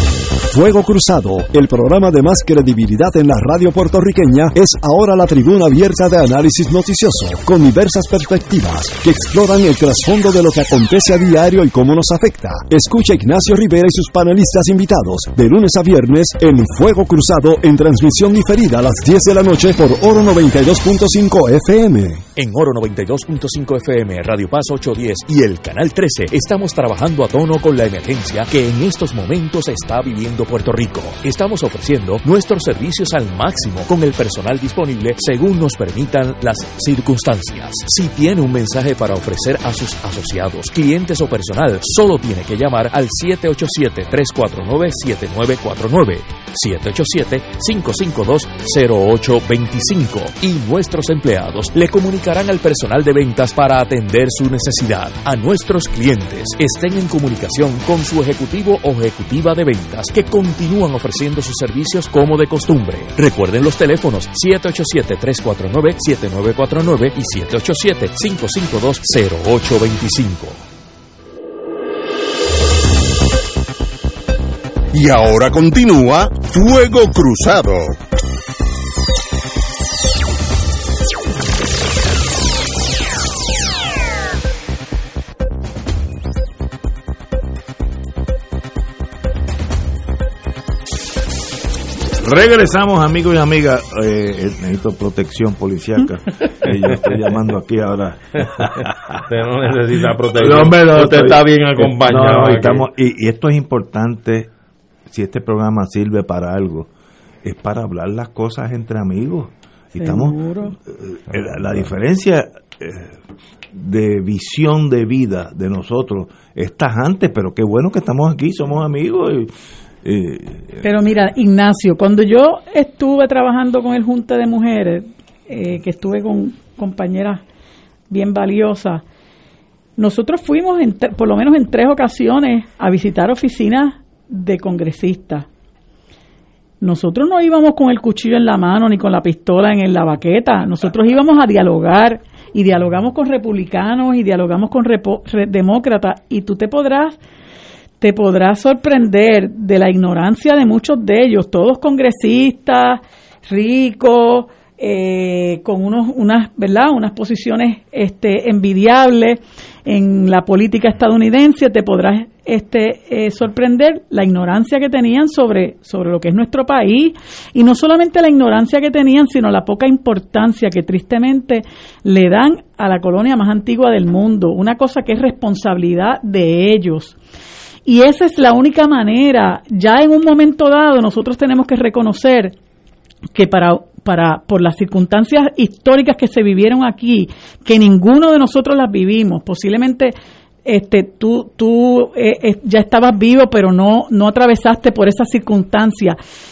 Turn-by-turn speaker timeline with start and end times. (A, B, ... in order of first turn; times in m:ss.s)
0:00.5-0:22.2 A
0:22.4-1:10.6 B
1:14.9-1:18.0 C
1:32.2-1:39.2 D
1:38.6-1:42.9 E
1:40.3-1:44.5 D
1:45.1-1:46.9 D
1:47.4-1:53.2 D
1:50.0-1:50.7 F
1:53.7-1:59.5 D
2:00.0-2:00.8 D
2:00.8-2:07.4 F
2:08.1-2:09.0 F
2:10.0-2:15.5 F
2:16.8-2:27.2 F
2:28.0-2:57.2 F
2:57.8-3:02.5 F
3:03.3-3:10.1 F
3:10.6-3:16.2 F